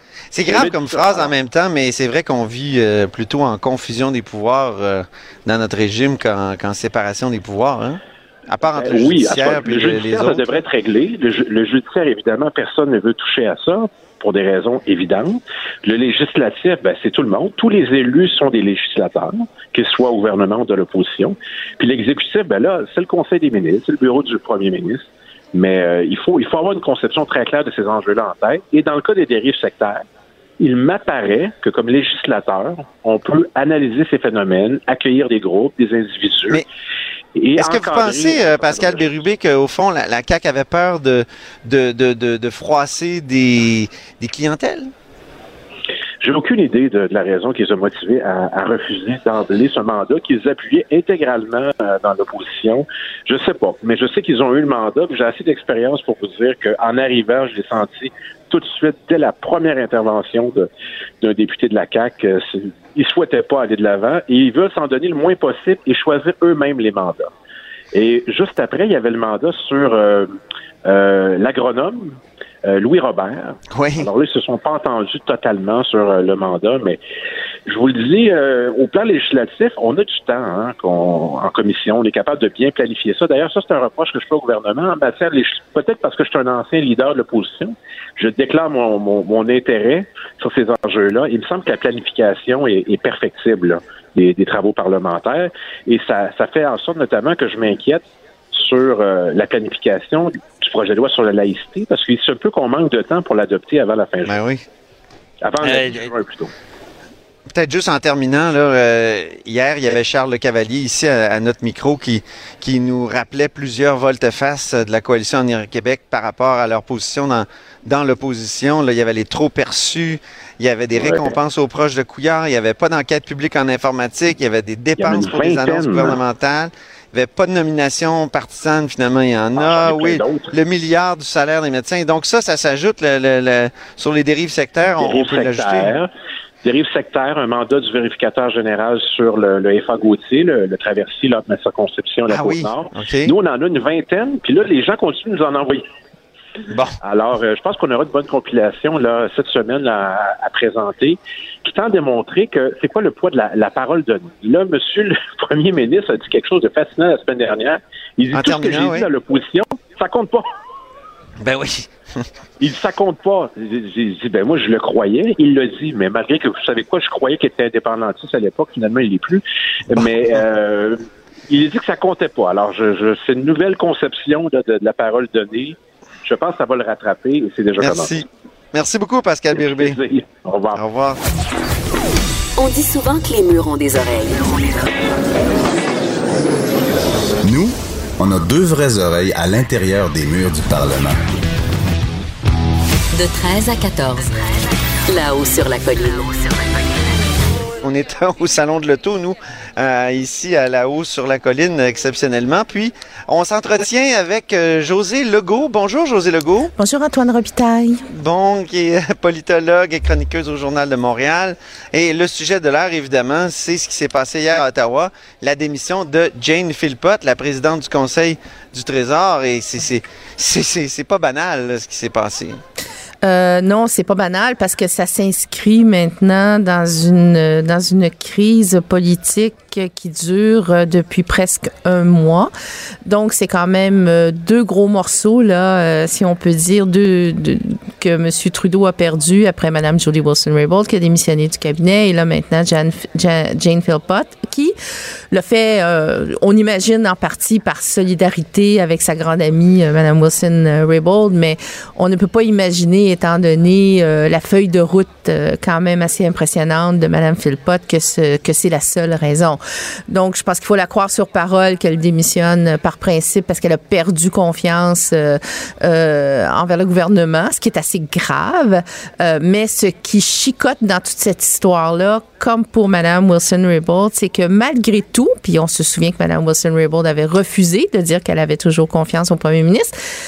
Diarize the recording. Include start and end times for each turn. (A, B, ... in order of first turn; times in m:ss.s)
0:00.3-0:10.4 A
0:00.5-0:01.3 B
0:08.6-0:30.0 B
0:30.6-0:36.6 B
0:37.3-0:39.2 B
0:37.6-0:44.9 A
0:46.2-1:00.7 B
1:01.2-1:07.3 B
1:07.9-1:10.3 B
1:10.8-1:17.0 B
1:13.7-1:14.1 A
1:17.7-1:44.3 B
1:44.2-1:44.6 A
1:45.4-1:46.5 B
1:45.6-1:46.1 A
1:47.5-2:15.9 A
2:01.0-2:01.3 B
2:05.0-2:06.2 B
2:09.6-2:10.5 B
2:14.9-2:16.1 B
2:16.6-2:25.8 B
2:22.3-2:23.3 A
2:26.7-2:27.0 A
2:27.0-2:40.4 B
2:38.3-2:39.1 A
2:41.4-2:42.2 A
2:42.6-2:58.1 B
2:49.9-2:50.4 A
2:57.8-3:00.0 A
2:59.5-3:00.8 B
3:00.7-3:01.2 A
3:02.6-3:04.6 C
3:07.4-3:11.2 D
3:13.1-3:14.3 C
3:15.1-3:16.5 C
3:17.8-3:26.7 A
3:26.8-3:28.0 E
3:28.1-3:42.6 A
3:43.2-3:52.5 E
3:53.0-4:04.7 E
4:05.3-4:39.9 E